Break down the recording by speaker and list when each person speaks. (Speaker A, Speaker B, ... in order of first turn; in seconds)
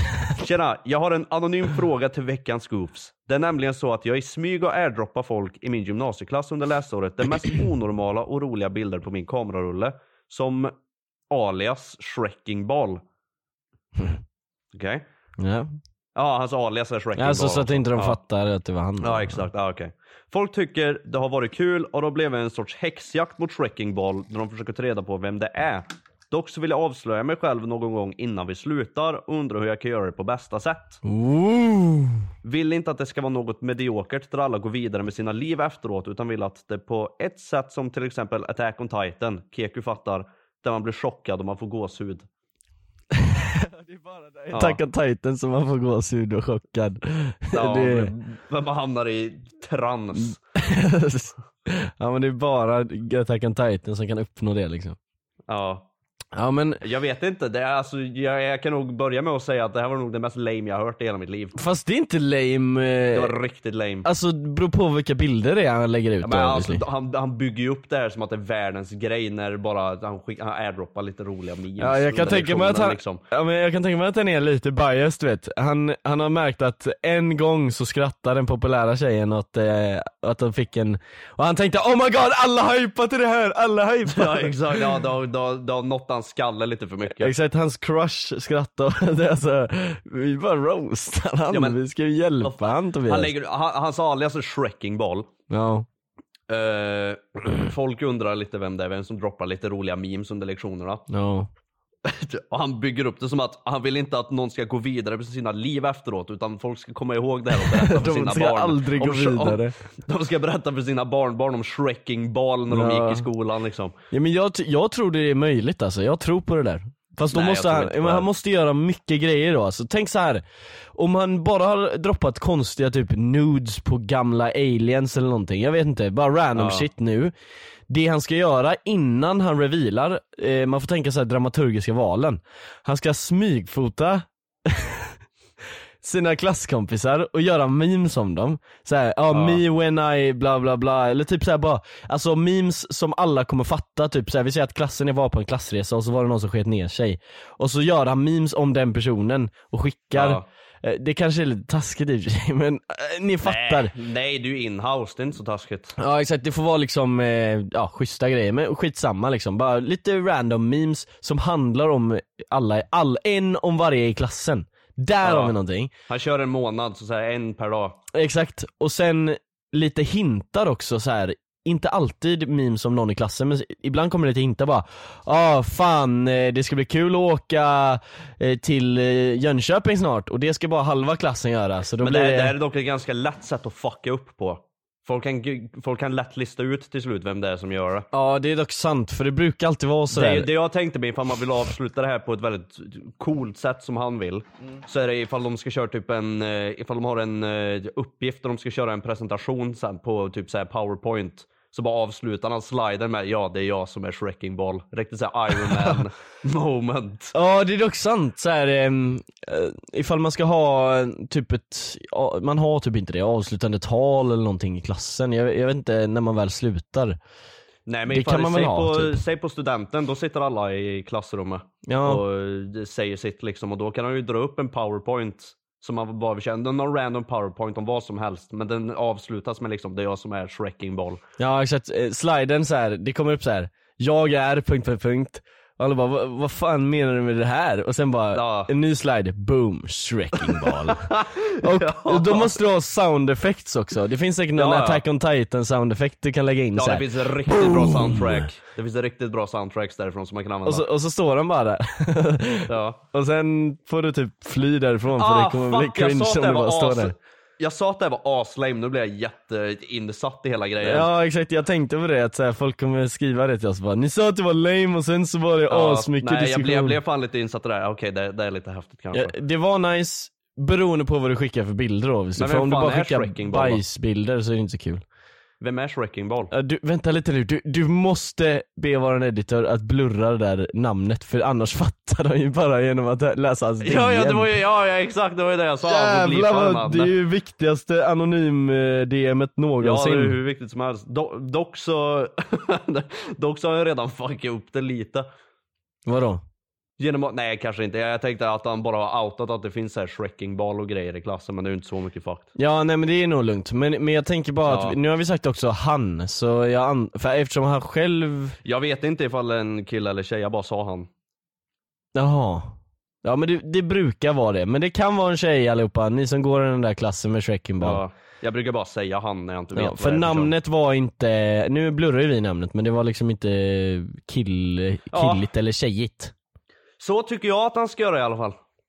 Speaker A: 0.4-10.7, 11.3-13.0, 14.7-15.0, 16.1-18.2, 19.0-31.0, 32.4-42.2, 44.5-44.8, 47.5-50.4, 55.5-55.9, 56.8-61.6, 63.1-64.0, 66.2-73.2, 84.1-87.3, 91.5-91.8, 92.4-95.3, 96.5-101.0, 102.0-113.9, 117.3-118.2, 126.5-126.9, 139.3-139.6, 150.1-150.4, 153.4-155.9, 165.2-165.5, 166.1-168.0, 182.0-188.1, 190.1-207.3, 217.9-231.2, 238.3-238.7, 240.4-242.6, 244.6-245.0, 246.8-250.8, 252.7-253.0, 255.2-261.1, 265.7-269.3, 272.4-273.8, 275.6-276.5, 283.8-287.1, 289.8-295.3, 297.0-302.5, 304.6-305.0, 308.6-311.1, 317.8-320.5, 325.1-325.4, 327.0-328.6
Speaker B: 15.4-15.7, 17.2-19.4, 31.0-32.2, 43.1-48.1, 50.5-55.0, 56.3-56.8, 61.5-63.3, 64.0-66.8, 71.8-84.8, 87.2-93.3, 95.5-95.8, 101.1-101.5, 107.6-109.7, 112.7-113.2, 114.1-120.4, 120.9-127.3, 127.9-135.1, 136.0-153.9, 156.0-165.9, 168.1-182.5, 188.1-190.5, 207.3-217.2, 218.1-219.2, 221.8-222.2, 231.4-241.1, 241.6-248.5, 250.7-257.1, 260.8-267.0, 269.1-275.0, 276.5-284.5, 285.8-290.4, 296.1-296.4, 302.6-308.6, 312.1-318.0, 319.7-326.3